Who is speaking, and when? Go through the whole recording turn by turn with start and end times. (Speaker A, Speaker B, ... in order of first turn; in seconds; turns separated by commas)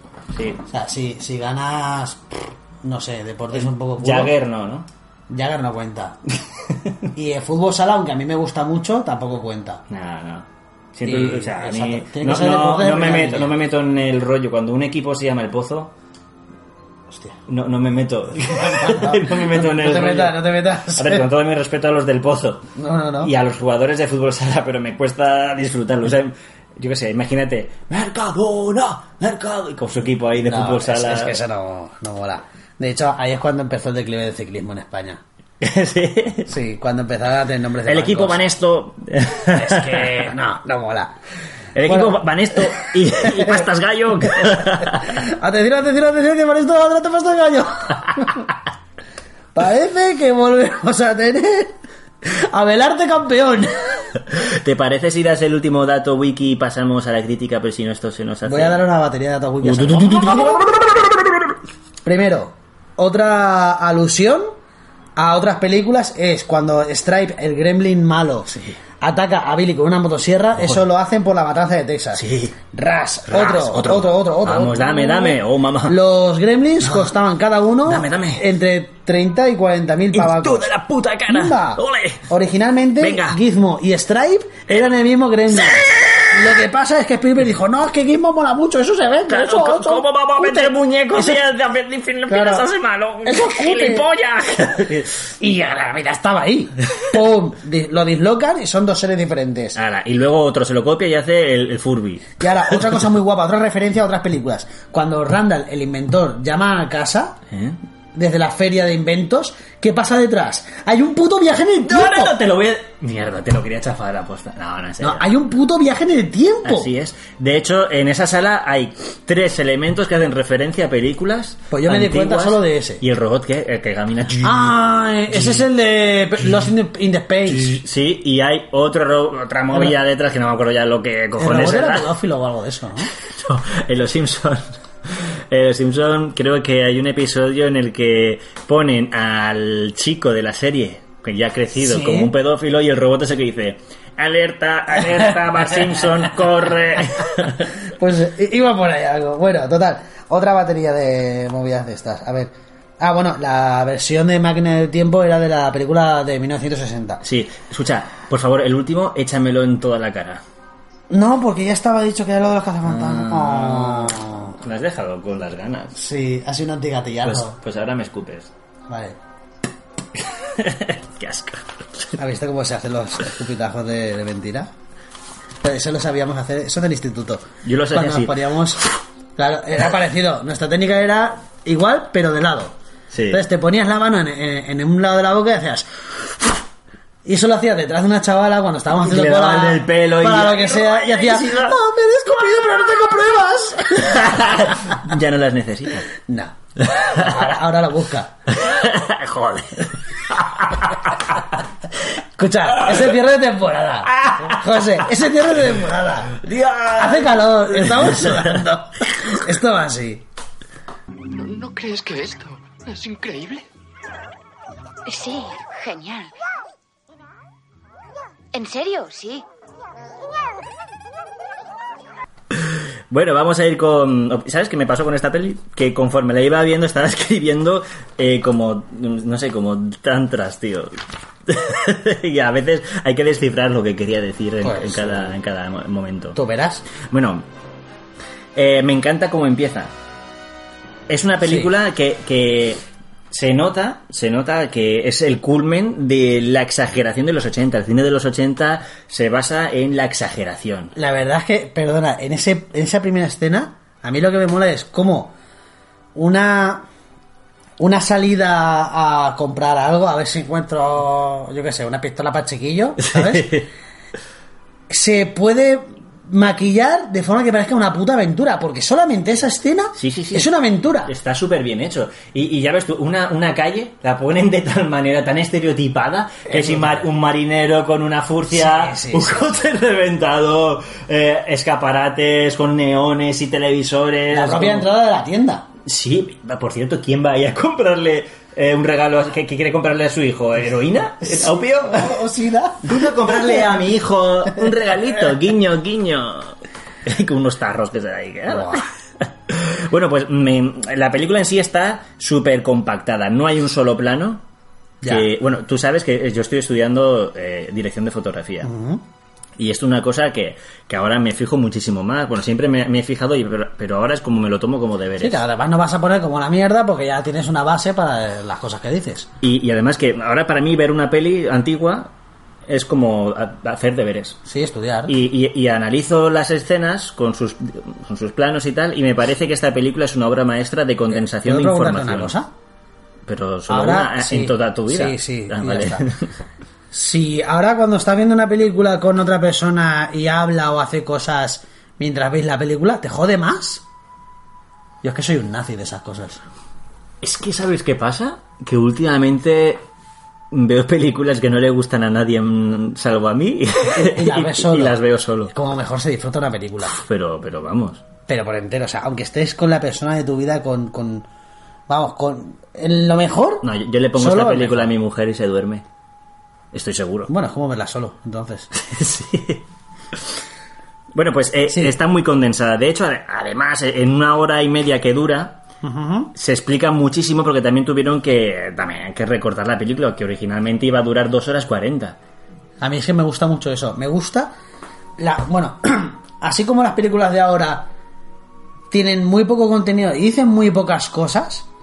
Speaker A: 0.3-0.6, Speaker B: 0.7-4.3, Speaker A: 3.5-4.9, Speaker B: 5.3-6.2, Speaker B: 7.2-9.8, Speaker A: 9.9-15.9, Speaker B: 11.1-13.6, Speaker B: 17.1-17.4, Speaker A: 17.5-20.4, Speaker B: 18.6-21.3, Speaker A: 20.9-22.7, Speaker B: 22.8-23.3, Speaker A: 23.2-31.4, Speaker B: 30.4-35.2, Speaker A: 35.6-36.5, Speaker B: 36.5-38.4, Speaker A: 37.9-40.2, Speaker B: 39.5-41.1, Speaker A: 41.8-45.2, Speaker B: 41.9-43.7, Speaker B: 44.3-48.5, Speaker B: 49.5-54.1, Speaker A: 54.3-58.8, Speaker B: 58.5-60.6, Speaker A: 59.6-61.0, Speaker B: 62.0-64.5, Speaker B: 65.2-80.7, Speaker A: 72.2-72.6, Speaker A: 73.3-76.0, Speaker A: 76.8-77.1, Speaker A: 77.8-78.5, Speaker A: 80.1-82.3, Speaker B: 81.3-91.4, Speaker A: 83.0-83.4, Speaker A: 85.6-86.3, Speaker A: 89.3-95.2, Speaker B: 92.3-92.7, Speaker B: 93.2-94.1, Speaker B: 95.3-99.8, Speaker A: 99.8-102.8, Speaker B: 102.4-107.4, Speaker A: 107.5-107.8, Speaker B: 108.1-112.4, Speaker A: 111.9-115.3, Speaker B: 115.0-116.9, Speaker A: 116.7-124.7, Speaker B: 121.7-123.0, Speaker B: 124.4-127.8, Speaker A: 125.3-125.6, Speaker A: 127.5-132.1, Speaker B: 131.4-133.1, Speaker A: 133.1-147.7, Speaker B: 141.8-142.3, Speaker B: 147.8-157.2, Speaker A: 157.2-160.4, Speaker B: 161.1-164.6, Speaker A: 162.9-166.0, Speaker B: 165.9-167.6, Speaker A: 167.2-168.5, Speaker B: 168.9-169.2, Speaker A: 170.4-172.2, Speaker B: 172.2-174.7, Speaker B: 175.6-182.8, Speaker A: 177.6-178.4, Speaker A: 183.1-183.4, Speaker B: 183.3-186.6, Speaker B: 187.2-194.9, Speaker A: 189.0-191.8, Speaker A: 194.0-196.1, Speaker B: 196.2-198.4, Speaker A: 196.9-197.3, Speaker A: 198.5-201.2, Speaker B: 202.4-206.4, Speaker A: 204.2-204.6, Speaker A: 206.3-208.6, Speaker B: 206.9-210.2, Speaker C: 211.3-213.7, Speaker D: 215.1-216.3, Speaker D: 218.5-219.4, Speaker A: 222.5-231.0, Speaker A: 231.5-236.4, Speaker B: 234.6-235.4, Speaker B: 236.3-236.9, Speaker A: 237.0-237.5, Speaker A: 238.6-239.9, Speaker A: 241.1-250.9, Speaker B: 241.4-241.7, Speaker B: 250.9-255.3, Speaker B: 256.1-256.9, Speaker B: 257.8-263.6, Speaker A: 263.0-263.7, Speaker B: 264.9-271.1, Speaker A: 270.0-270.5, Speaker A: 271.1-284.9, Speaker B: 276.5-277.0, Speaker B: 278.5-279.6, Speaker B: 284.3-285.7, Speaker A: 285.9-292.2, Speaker B: 291.2-293.7, Speaker A: 292.8-304.4, Speaker B: 298.5-298.8, Speaker B: 305.0-305.3, Speaker A: 305.0-308.7, Speaker B: 308.6-309.0, Speaker A: 309.6-315.4, Speaker B: 315.2-319.3, Speaker A: 319.4-322.1, Speaker A: 322.7-324.4, Speaker B: 324.4-325.1, Speaker A: 325.1-332.4, Speaker B: 331.1-332.5, Speaker A: 333.3-336.3, Speaker B: 333.7-336.1, Speaker B: 336.9-343.8, Speaker B: 345.0-346.4, Speaker A: 347.2-349.8, Speaker A: 350.5-355.5, Speaker B: 353.9-355.0, Speaker B: 355.5-357.0, Speaker A: 356.9-358.0, Speaker B: 358.3-361.3, Speaker B: 361.9-364.9, Speaker A: 363.6-365.9, Speaker A: 366.7-367.3, Speaker B: 367.3-368.7, Speaker A: 368.8-369.6, Speaker A: 371.1-375.6, Speaker B: 375.8-376.3, Speaker A: 376.3-382.2, Speaker B: 382.8-384.5, Speaker B: 385.2-387.9, Speaker B: 388.9-391.7